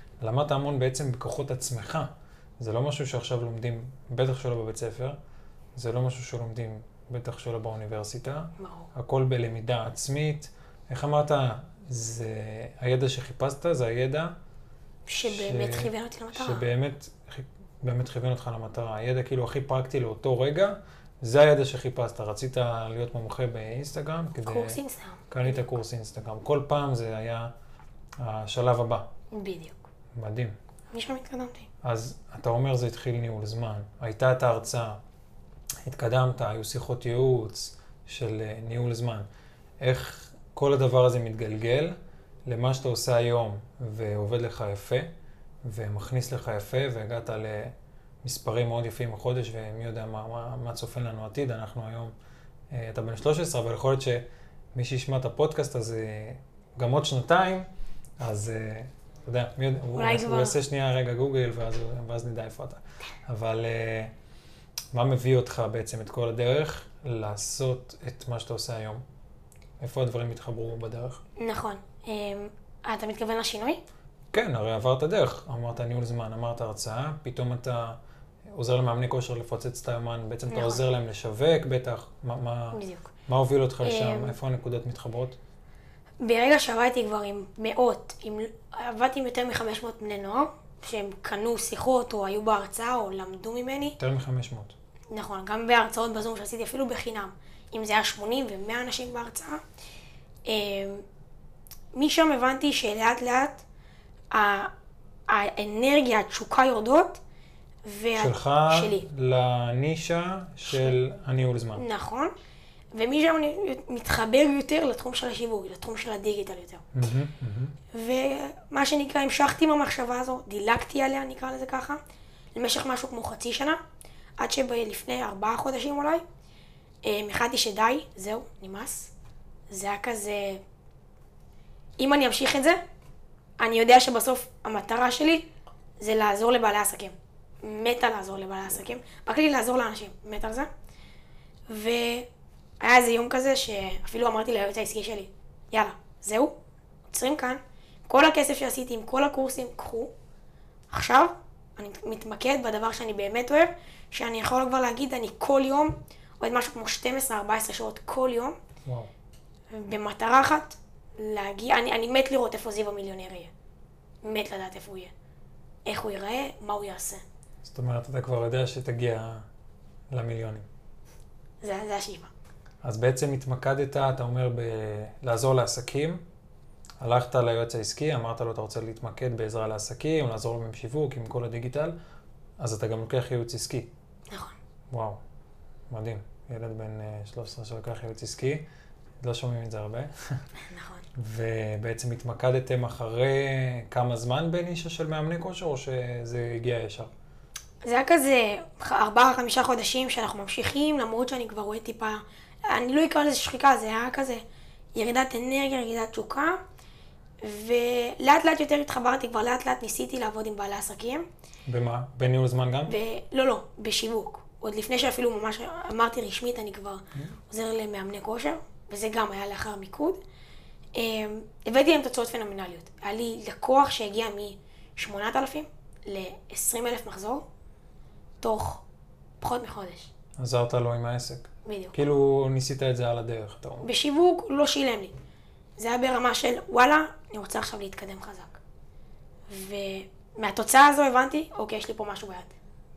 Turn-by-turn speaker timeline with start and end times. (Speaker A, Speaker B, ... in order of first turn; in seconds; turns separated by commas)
Speaker A: 0.2-5.2, Speaker A: 5.8-14.3, Speaker B: 8.6-8.9, Speaker B: 15.1-16.7, Speaker A: 15.2-24.8, Speaker B: 24.4-25.6, Speaker A: 25.3-27.5, Speaker A: 28.2-29.1, Speaker B: 29.3-29.9, Speaker A: 30.1-30.5, Speaker B: 30.9-31.7, Speaker A: 31.8-35.0, Speaker A: 35.9-39.2, Speaker A: 39.8-41.9, Speaker A: 42.5-45.1, Speaker A: 45.6-52.1, Speaker A: 52.7-57.7, Speaker A: 58.2-64.1, Speaker B: 59.9-60.6, Speaker A: 64.9-69.0, Speaker A: 69.8-71.2, Speaker B: 71.4-73.8, Speaker A: 74.3-78.0, Speaker A: 78.5-85.4, Speaker B: 80.5-80.8, Speaker B: 82.7-83.1, Speaker B: 83.8-84.4, Speaker B: 86.2-94.0, Speaker A: 94.0-94.8, Speaker B: 95.1-99.6, Speaker B: 100.5-101.0, Speaker B: 101.9-103.6, Speaker B: 104.3-104.7, Speaker B: 105.3-107.2, Speaker B: 107.8-109.0, Speaker A: 108.2-111.8, Speaker B: 110.7-110.9, Speaker B: 111.8-112.3, Speaker B: 112.9-116.9, Speaker A: 116.9-117.8, Speaker B: 117.9-122.0, Speaker B: 122.5-123.8, Speaker B: 124.4-126.2, Speaker B: 127.0-129.1, Speaker B: 129.7-130.6, Speaker B: 132.0-132.8, Speaker B: 133.6-135.5, Speaker B: 136.0-140.7, Speaker B: 141.7-142.3, Speaker B: 142.8-146.5, Speaker B: 147.1-150.1, Speaker B: 150.9-158.6, Speaker B: 159.7-163.5, Speaker B: 164.2-165.1, Speaker B: 165.9-167.2, Speaker A: 167.6-169.4, Speaker A: 170.1-170.7, Speaker B: 171.6-172.3, Speaker A: 172.8-176.2, Speaker A: 177.0-181.9, Speaker A: 182.6-183.9, Speaker B: 184.3-184.6, Speaker A: 184.9-185.2, Speaker A: 185.9-188.6, Speaker A: 189.2-190.4, Speaker B: 190.7-191.0, Speaker A: 191.1-197.1, Speaker B: 197.8-204.4, Speaker B: 204.9-206.6, Speaker B: 207.4-211.2, Speaker A: 211.7-213.0, Speaker B: 212.9-220.2, Speaker B: 220.9-227.4, Speaker B: 228.4-228.8, Speaker B: 229.4-230.1, Speaker A: 230.4-233.9, Speaker B: 231.6-232.0, Speaker B: 233.8-235.1, Speaker B: 235.8-238.6, Speaker B: 239.5-242.5